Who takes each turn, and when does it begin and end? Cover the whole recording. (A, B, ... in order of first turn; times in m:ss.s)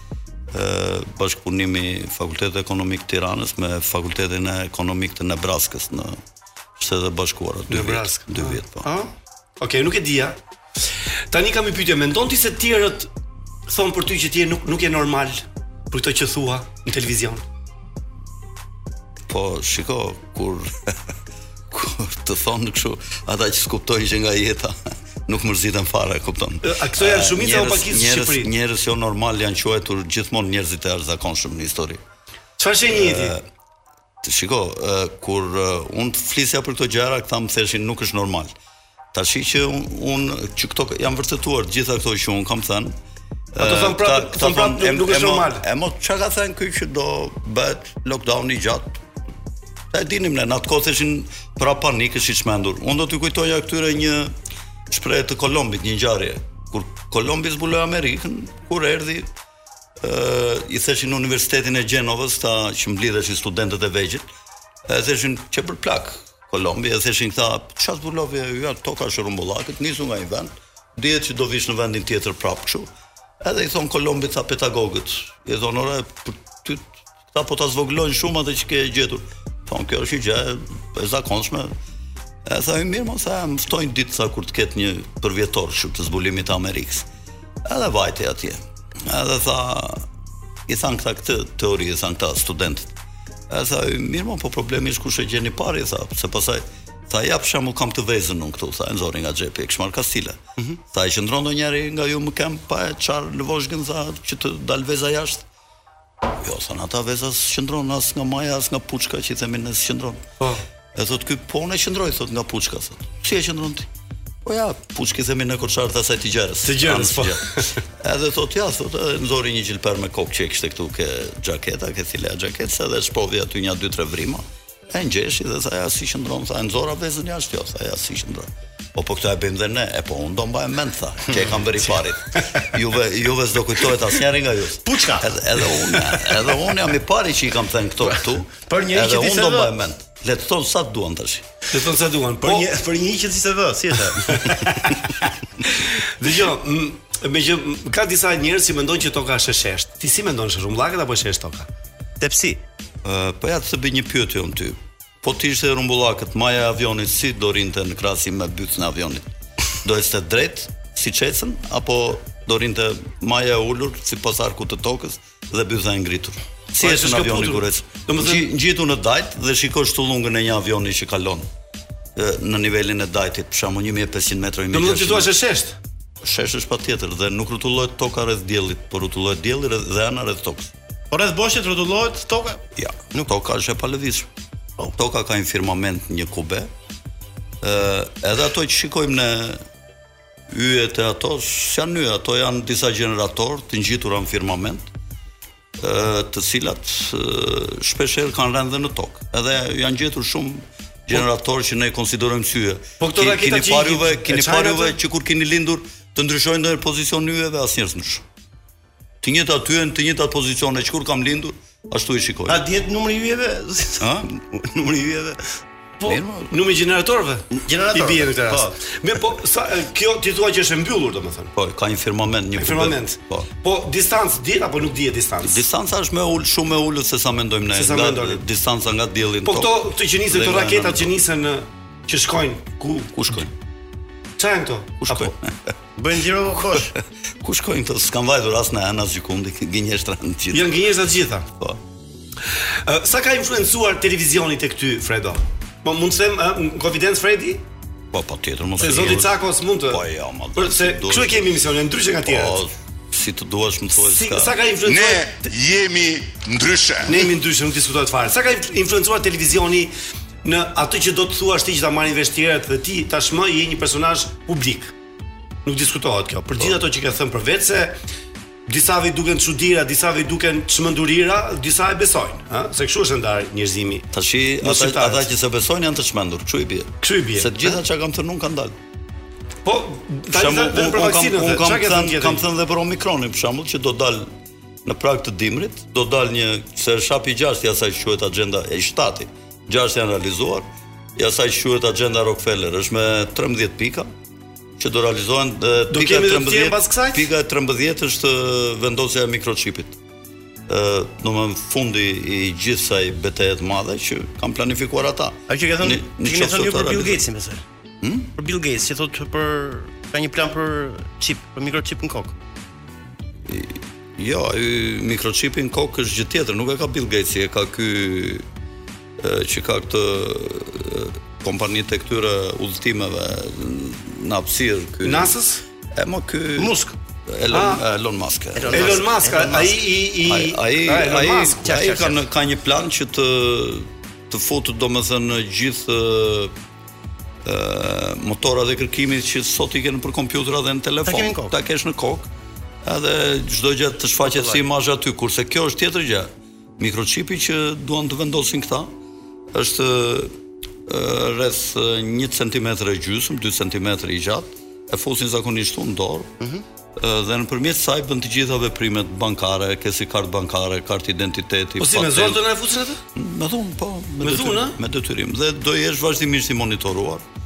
0:00.5-0:06.2 A
0:06.8-0:08.9 A
0:07.7-0:10.4 B
0:11.3-0:13.1 B
0:13.7-0:17.4 B
0:19.3-0:20.7 A
0:21.7-0:24.7 A
0:25.3-0:32.0 A
0:26.6-0:28.5 B
0:32.6-0:33.4 B
0:32.9-0:33.4 A
0:34.2-0:38.5 A
0:39.1-0:42.9 A
0:43.5-0:49.0 A
0:43.6-0:45.6 B
0:49.9-0:54.3 A
0:54.9-0:59.3 A
1:00.0-1:04.2 A
1:04.9-1:12.9 A
1:13.4-1:21.7 A
1:22.4-1:27.0 A
1:27.6-1:30.0 A
1:30.7-1:32.9 A
1:33.5-1:40.4 A
1:40.9-1:45.4 A
1:46.4-1:50.2 A
1:50.9-1:53.9 A
1:54.4-1:57.5 A
1:56.6-1:57.8 B
1:58.0-2:21.4 A
2:14.8-2:15.3 C
2:18.6-2:19.8 C
2:21.7-2:22.7 B
2:22.4-2:24.6 C
2:25.7-2:31.7 B
2:32.2-2:32.6 C
2:33.0-2:39.2 A
2:39.8-2:51.4 A
2:46.8-2:48.4 B
2:52.2-2:55.3 A
2:54.7-2:55.7 B
2:56.2-3:00.7 A
3:01.1-3:03.3 C
3:02.8-3:04.3 A
3:05.0-3:06.7 A
3:07.6-3:09.6 A
3:10.5-3:14.8 A
3:15.8-3:28.2 A
3:23.0-3:25.0 B
3:29.2-3:32.6 A
3:32.5-3:35.4 C
3:34.0-3:34.3 A
3:36.0-3:41.5 B
3:36.0-3:36.5 A
3:37.6-3:38.8 C
3:41.6-3:43.5 A
3:42.6-3:45.6 B
3:45.4-3:51.1 A
3:47.7-3:48.4 B
3:49.4-3:53.1 B
3:53.1-3:53.5 A
3:54.4-3:55.3 B
3:55.0-3:55.4 A
3:56.0-3:56.9 C
3:57.4-4:00.8 A
4:00.5-4:01.5 B
4:02.8-4:07.6 B
4:08.1-4:11.5 A
4:08.8-4:10.0 B
4:10.6-4:12.6 B
4:12.2-4:14.6 A
4:14.0-4:15.5 B
4:14.8-4:17.2 D
4:17.1-4:19.9 B
4:20.4-4:24.9 B
4:25.6-4:28.0 B
4:28.7-4:34.1 B
4:34.1-4:38.7 A
4:34.6-4:35.3 B
4:37.0-4:37.8 B
4:39.6-4:42.4 B
4:40.3-4:44.3 A
4:44.8-4:50.6 A
4:51.2-4:54.1 A
4:54.8-5:00.0 A
4:55.9-4:57.3 B
5:00.7-5:07.2 A
5:05.5-5:12.4 C
5:13.5-5:18.4 A
5:19.2-5:25.3 A
5:25.0-5:25.6 B
5:26.0-5:26.7 A
5:26.6-5:27.0 C
5:27.3-5:29.1 A
5:27.5-5:27.8 B
5:28.5-5:29.8 C
5:28.7-5:31.7 B
5:30.2-5:36.5 A
5:31.6-5:32.2 C
5:37.4-5:42.3 A
5:41.0-5:41.6 C
5:42.8-5:48.9 A
5:44.2-5:44.6 C
5:49.5-5:50.3 A
5:50.9-5:56.3 A
5:57.0-6:02.4 A
6:01.8-6:03.0 B
6:03.1-6:07.2 A
6:04.2-6:04.8 B